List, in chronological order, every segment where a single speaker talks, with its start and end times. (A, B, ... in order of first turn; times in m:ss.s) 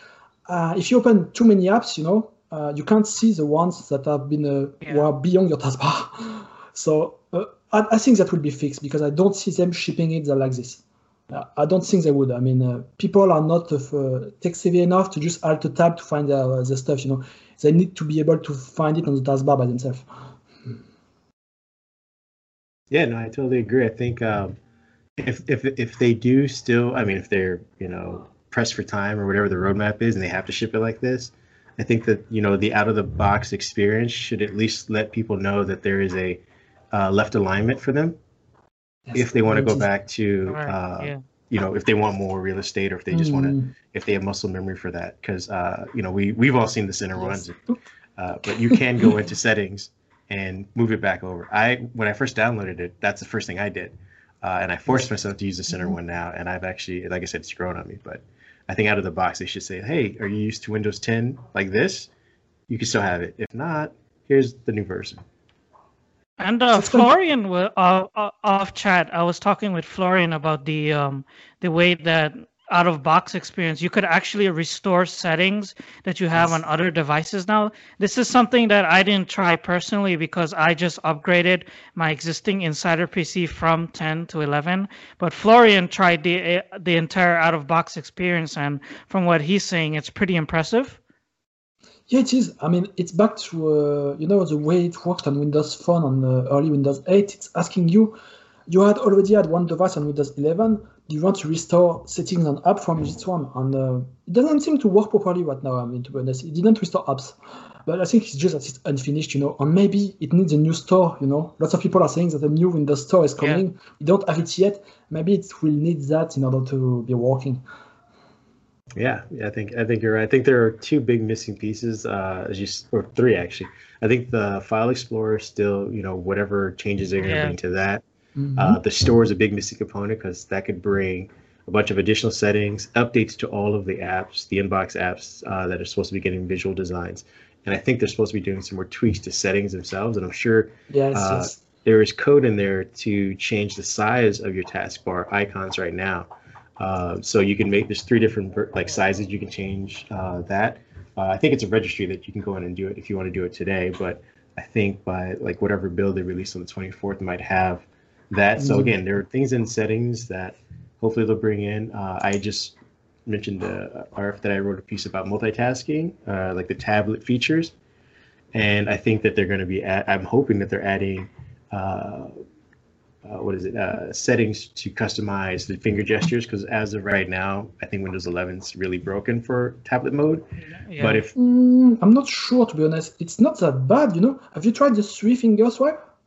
0:00.4-0:20.1 A
0:22.9-0:24.6 B
0:25.2-0:36.4 B
0:36.9-0:38.2 B
0:39.1-0:39.9 A
0:39.1-0:47.6 B
0:40.5-0:41.2 C
0:43.1-0:43.7 A
0:47.2-0:47.4 A
0:48.2-1:02.1 B
0:48.7-0:49.1 A
0:55.7-0:56.0 A
1:02.7-1:05.2 B
1:06.4-1:31.0 C
1:06.7-1:07.1 A
1:32.1-1:38.2 A
1:38.7-1:57.6 A
1:59.0-2:08.0 B
2:07.2-2:07.6 C
2:08.4-2:08.8 A
2:08.6-2:26.3 B
2:20.9-2:21.6 A
2:26.8-2:42.8 B
2:38.6-2:39.0 A
2:43.3-2:47.7 B
2:48.5-2:52.3 B
2:53.2-3:00.4 B
3:00.6-3:01.2 C
3:01.0-3:01.3 B
3:01.4-3:06.0 A